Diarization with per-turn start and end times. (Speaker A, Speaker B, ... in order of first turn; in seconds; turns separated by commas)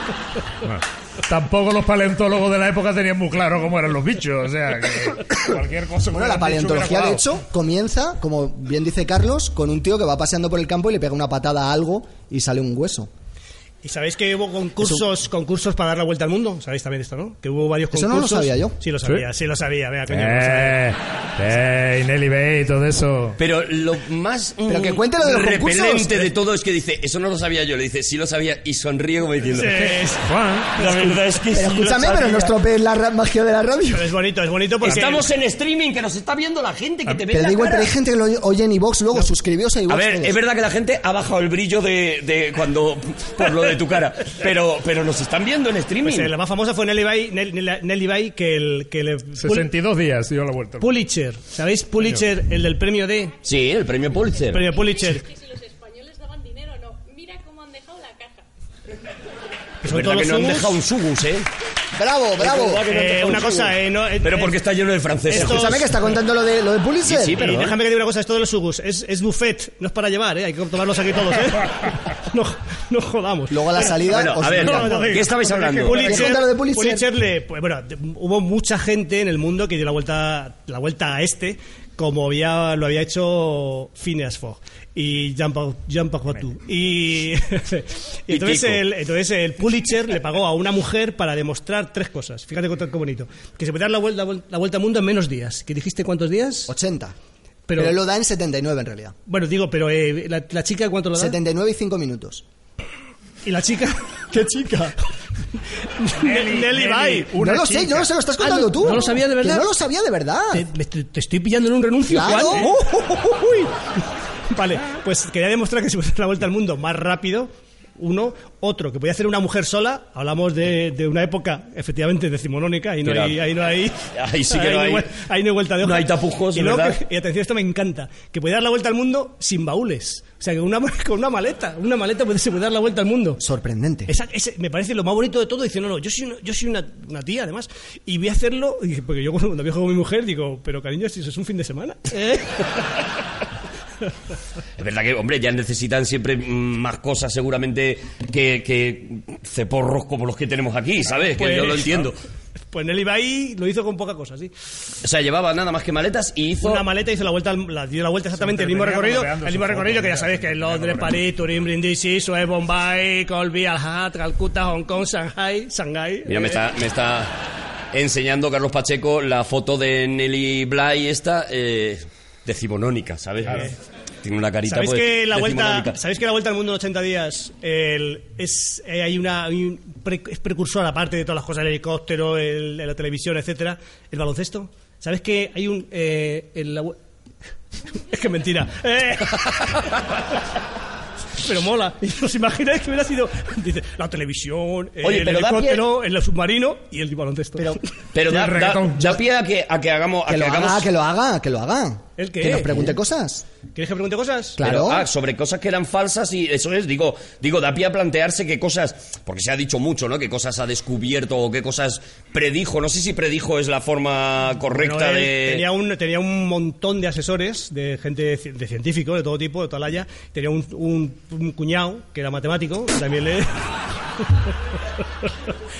Speaker A: 0.6-7.2, Speaker B: 6.1-13.1, Speaker C: 13.8-20.8, Speaker B: 17.9-18.8, Speaker A: 20.1-23.4, Speaker D: 23.4-29.9, Speaker B: 24.7-26.4, Speaker C: 29.5-30.3, Speaker A: 29.8-31.2, Speaker D: 30.8-32.5, Speaker B: 31.5-34.1, Speaker C: 33.9-35.3, Speaker D: 34.8-37.9, Speaker A: 37.1-37.4, Speaker B: 37.3-40.4, Speaker D: 39.9-46.3, Speaker C: 46.0-49.7, Speaker A: 49.4-50.9, Speaker C: 50.8-53.3, Speaker D: 53.4-54.8, Speaker C: 54.5-55.3, Speaker E: 54.8-58.4, Speaker C: 59.8-60.8, Speaker D: 59.9-61.5, Speaker B: 62.0-62.9, Speaker D: 62.4-66.0, Speaker C: 62.9-64.6, Speaker C: 65.3-65.9, Speaker B: 65.3-67.5, Speaker D: 67.0-67.8, Speaker C: 67.3-96.7, Speaker B: 73.5-75.1, Speaker D: 74.1-76.3, Speaker A: 74.6-76.2, Speaker B: 76.0-77.1, Speaker D: 88.3-88.8, Speaker B: 96.7-97.1, Speaker C: 97.7-98.0, Speaker B: 97.8-99.2, Speaker C: 99.3-101.4, Speaker B: 101.2-102.4, Speaker C: 103.5-104.3, Speaker B: 104.3-105.0, Speaker C: 105.8-107.3, Speaker A: 106.2-108.1, Speaker B: 107.4-110.7, Speaker C: 108.4-109.7, Speaker C: 110.5-113.7, Speaker B: 112.1-112.7, Speaker C: 114.5-133.4, Speaker D: 123.0-123.4, Speaker D: 124.1-125.1, Speaker D: 125.8-127.0, Speaker B: 133.4-134.1, Speaker C: 134.1-142.6, Speaker D: 144.8-152.2, Speaker C: 151.3-152.1, Speaker C: 152.7-154.5, Speaker D: 155.0-156.9, Speaker C: 156.6-166.6, Speaker A: 158.3-161.3, Speaker D: 166.3-167.3, Speaker D: 167.9-176.0, Speaker C: 174.7-187.0, Speaker C: 188.0-189.8, Speaker C: 191.4-197.9, Speaker D: 195.0-195.9, Speaker D: 198.1-200.9, Speaker A: 198.3-199.2, Speaker B: 200.3-203.4, Speaker C: 202.2-202.9, Speaker C: 203.8-204.6, Speaker B: 204.6-205.1, Speaker D: 204.6-215.7, Speaker C: 214.7-223.7